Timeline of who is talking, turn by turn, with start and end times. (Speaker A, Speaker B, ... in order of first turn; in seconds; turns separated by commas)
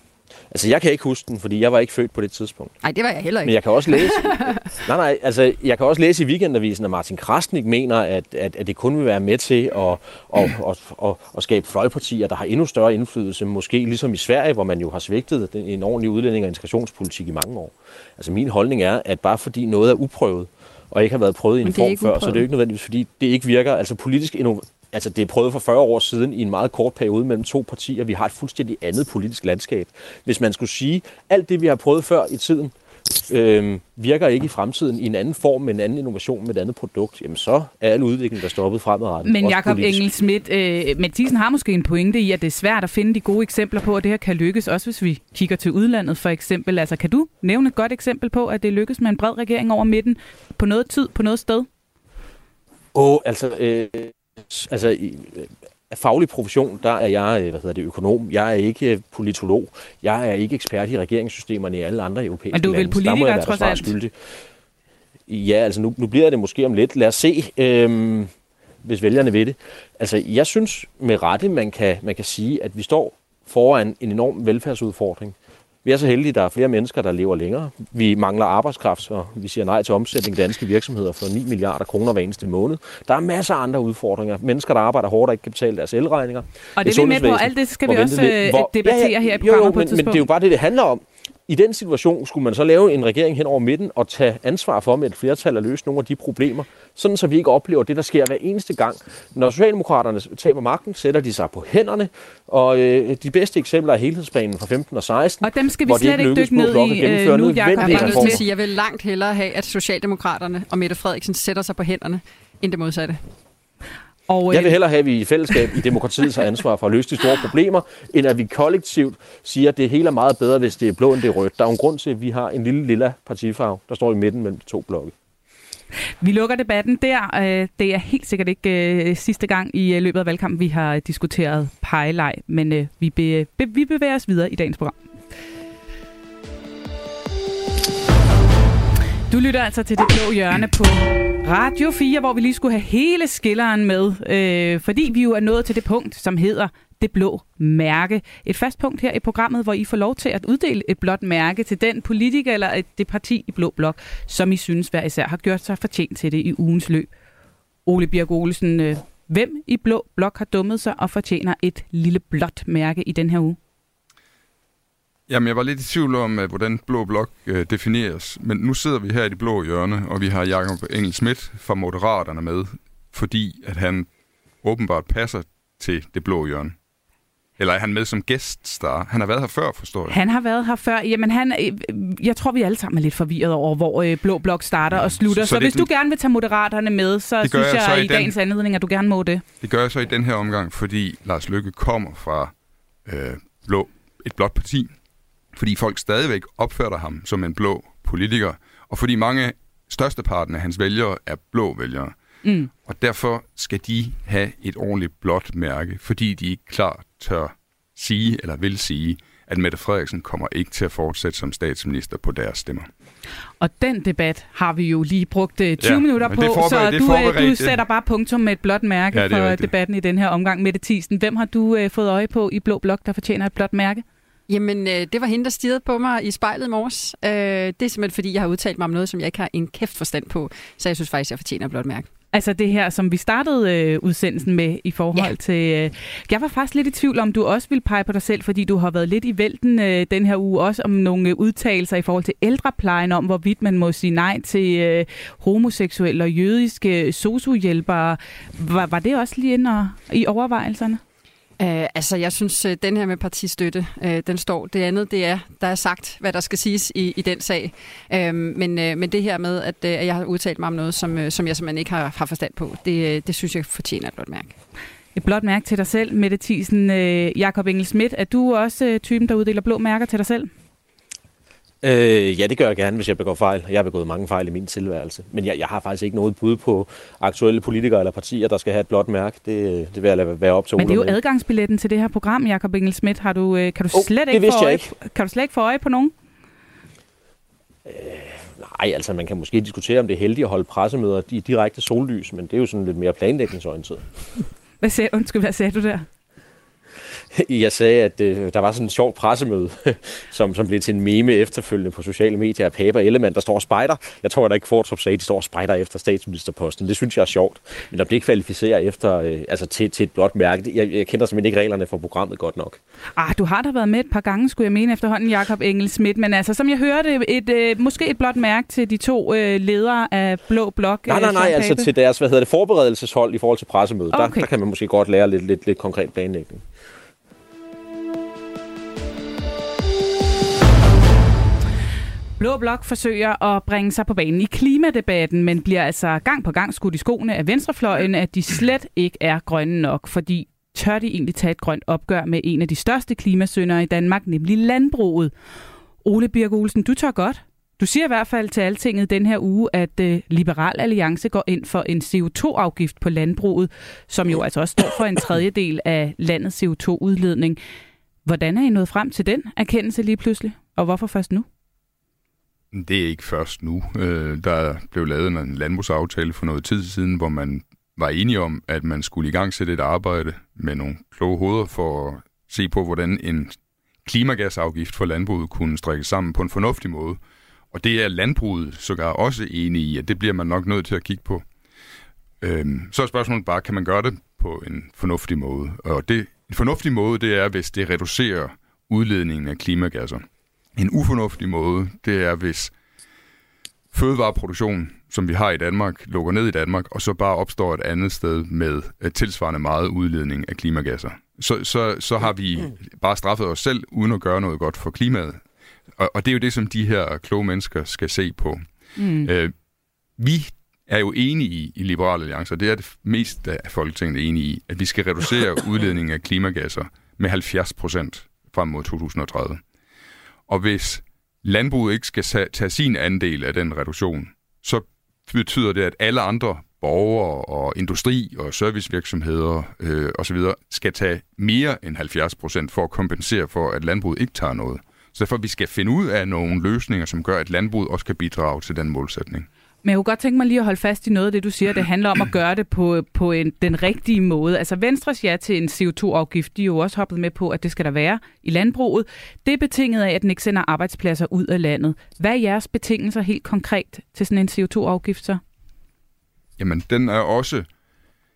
Speaker A: 0.5-2.7, Speaker B: 2.8-4.6, Speaker A: 3.4-40.0, Speaker B: 21.6-22.4, Speaker C: 39.2-51.7, Speaker A: 52.9-64.1, Speaker C: 62.5-63.9, Speaker A: 65.3-68.3, Speaker A: 68.8-108.4, Speaker C: 86.8-90.3, Speaker C: 105.4-108.4, Speaker B: 107.8-113.2, Speaker C: 114.3-114.8, Speaker A: 114.5-125.1, Speaker C: 126.2-134.9, Speaker C: 139.3-157.1, Speaker C: 157.8-163.6, Speaker D: 165.3-174.1, Speaker D: 174.6-176.7, Speaker D: 177.6-180.2, Speaker C: 180.1-189.4, Speaker D: 184.9-185.9, Speaker D: 187.4-188.3, Speaker D: 189.6-192.5, Speaker D: 193.1-194.9, Speaker D: 195.5-202.1, Speaker C: 202.4-202.7, Speaker D: 202.8-212.9, Speaker C: 213.6-224.0, Speaker D: 215.8-217.8, Speaker D: 219.1-219.7, Speaker B: 224.5-232.1, Speaker C: 232.3-251.0, Speaker B: 251.6-264.5, Speaker C: 265.1-270.5, Speaker A: 271.8-281.2, Speaker C: 280.8-286.1, Speaker A: 283.9-284.9, Speaker A: 287.8-294.1, Speaker C: 294.8-296.1, Speaker A: 297.3-312.8, Speaker C: 313.2-321.9, Speaker A: 321.1-326.6, Speaker C: 324.1-324.5, Speaker C: 332.4-345.3, Speaker C: 346.0-357.6, Speaker C: 358.2-361.4, Speaker D: 362.7-377.2, Speaker D: 377.7-381.4, Speaker D: 382.4-390.2, Speaker D: 390.8-392.7, Speaker D: 393.9-405.4, Speaker D: 406.0-408.6, Speaker C: 409.0-409.3, Speaker D: 409.2-409.5, Speaker D: 410.2-419.6, Speaker D: 420.5-439.5, Speaker C: 439.8-455.4, Speaker D: 456.6-457.7